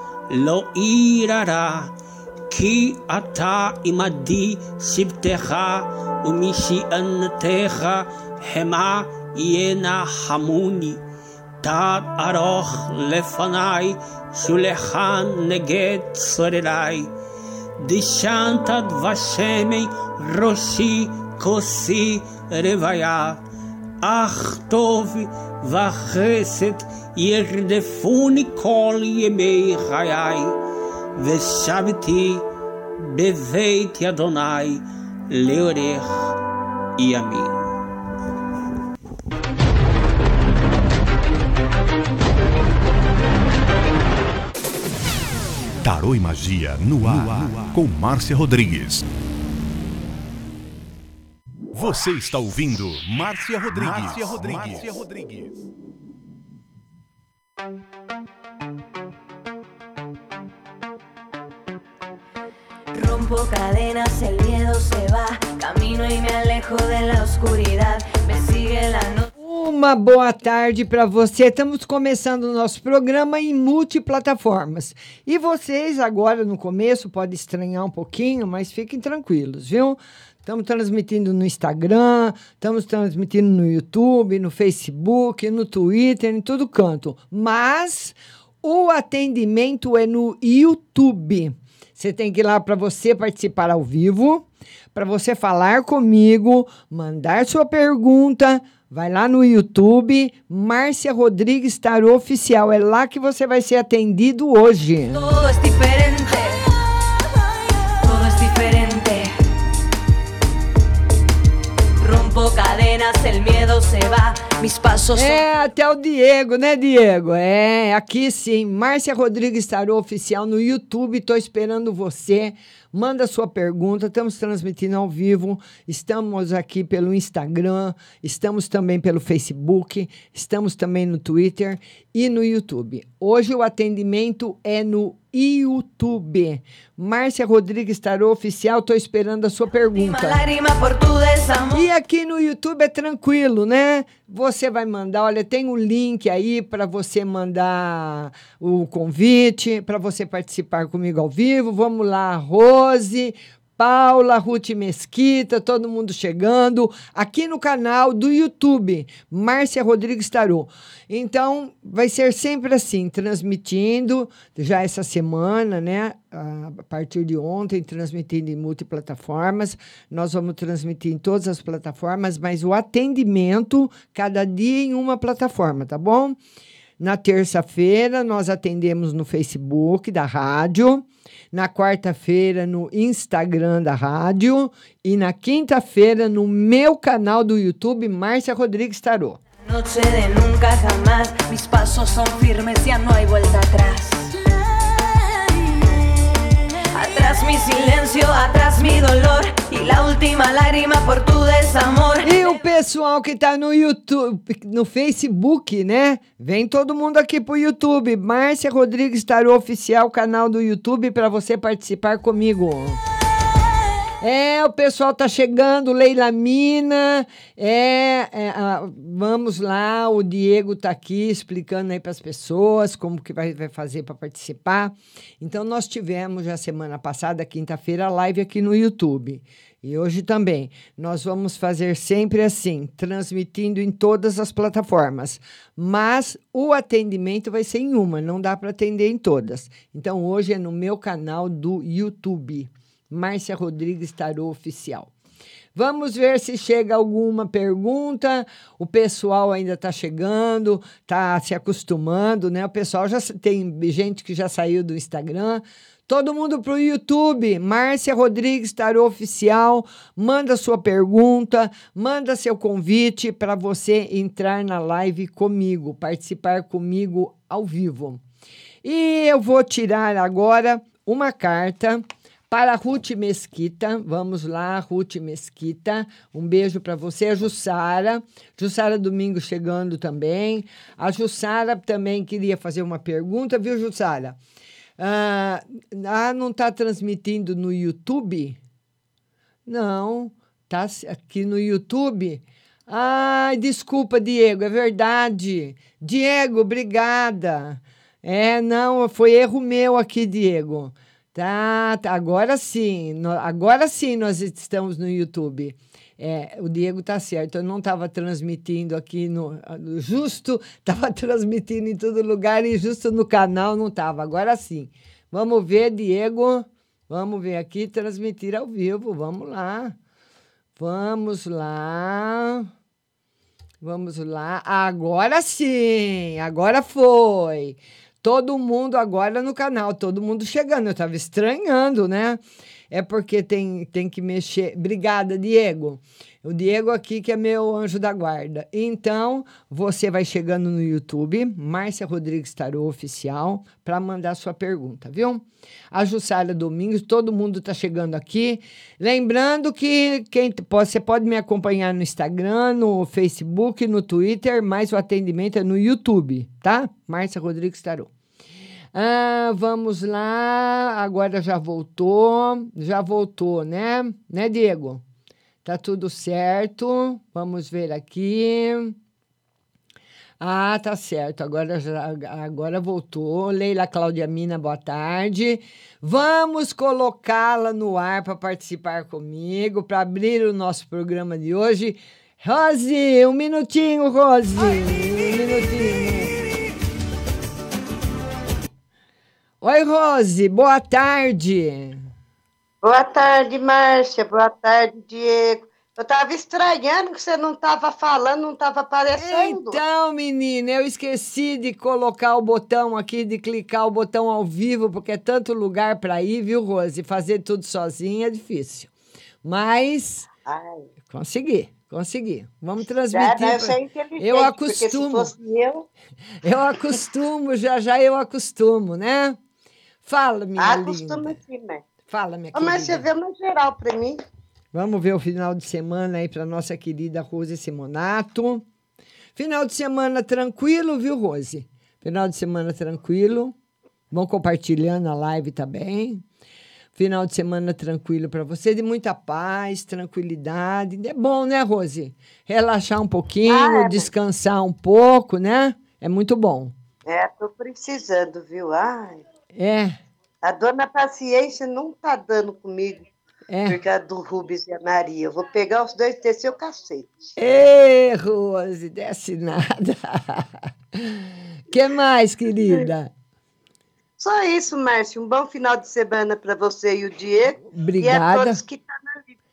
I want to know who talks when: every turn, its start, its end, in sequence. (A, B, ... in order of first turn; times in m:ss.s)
0:00.3-0:01.9 A
0:02.5-0:11.0 A
0:11.6-0:17.1 A
0:17.8-0:23.4 A
0:24.0-0:30.5 A
0:31.2-0:32.4 A
0:33.0-0:36.3 A
0:37.0-0:37.6 A
0:45.8-0:49.0 B
0:51.7-0:55.5 B
1:02.9-1:09.3 C
1:09.4-1:45.2 D
1:45.1-1:46.6 C
1:48.0-1:49.3 C
1:52.0-1:55.4 C
1:55.1-2:20.4 D
2:20.0-2:21.8 C
2:21.7-2:56.4 D
2:57.0-3:09.4 D
3:09.6-3:14.3 C
3:16.9-3:22.5 C
3:22.2-3:33.0 D
3:34.2-4:05.1 D
4:05.7-4:28.2 D
4:28.8-4:44.4 D
4:45.0-4:48.6 D
4:49.6-5:20.0 D
5:20.8-5:22.7 D
5:23.8-5:58.1 D
5:58.9-6:05.0 D
6:05.6-6:09.0 D
6:10.4-6:26.3 D
6:29.6-6:32.1 D
6:32.8-6:39.8 E
6:39.2-6:48.9 D
6:49.4-6:50.3 D
6:50.4-6:50.8 E
6:51.1-6:55.3 D
6:53.1-6:55.8 E
6:56.4-6:59.4 D
7:00.0-7:01.4 D
7:00.6-7:01.8 E
7:02.0-7:03.0 D
7:02.5-7:04.2 E
7:04.7-7:08.6 D
7:09.4-7:13.5 D
7:14.1-7:16.2 D
7:16.9-7:26.7 D
7:23.5-7:24.1 E
7:27.0-7:29.2 E
7:29.5-7:30.0 D
7:30.4-7:33.1 E
7:33.5-7:33.8 D
7:33.6-7:37.1 E
7:37.4-7:43.1 D
7:44.2-7:49.3 E
7:47.7-7:48.6 D